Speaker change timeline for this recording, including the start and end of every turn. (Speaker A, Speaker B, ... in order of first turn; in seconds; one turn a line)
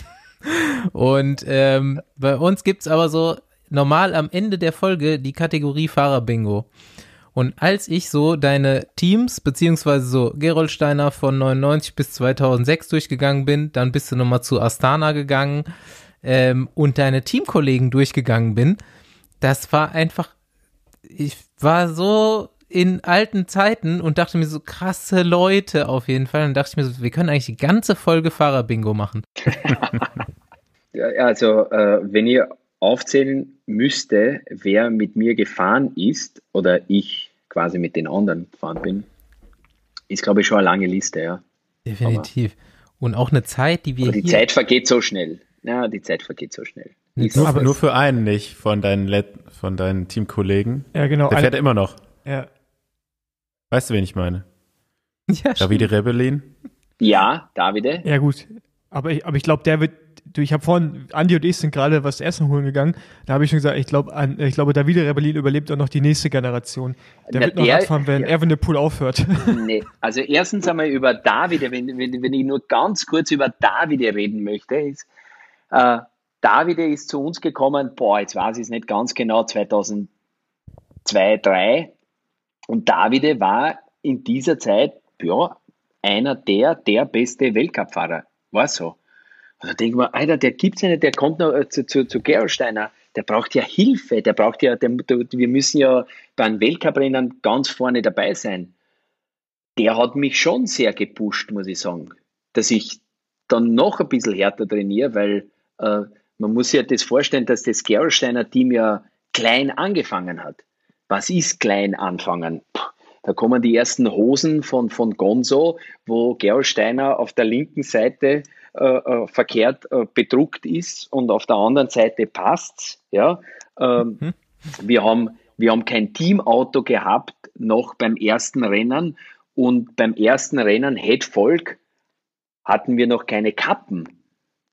Speaker A: 0.5-6.7
Speaker A: 7.3-15.7
Speaker A: 16.2-18.8
Speaker A: 19.4-20.3
Speaker A: 21.1-29.3
Speaker B: 29.5-30.0
Speaker B: 30.9-39.1
Speaker B: 40.1-41.4
Speaker A: 41.9-44.4
Speaker B: 44.0-47.6
Speaker A: 47.2-47.5
Speaker C: 47.3-52.0
Speaker D: 47.4-47.7
Speaker D: 50.9-51.5
Speaker C: 53.7-54.4
Speaker A: 55.3-55.9
Speaker C: 55.6-56.5
Speaker B: 57.0-58.0
Speaker D: 58.0-69.7
Speaker B: 67.3-68.3
Speaker B: 69.4-75.1
Speaker B: 75.7-80.1
Speaker B: 81.0-81.9
Speaker B: 82.7-89.0
Speaker B: 89.6-98.7
Speaker B: 99.8-124.3
Speaker B: 124.8-131.8
Speaker B: 132.7-134.1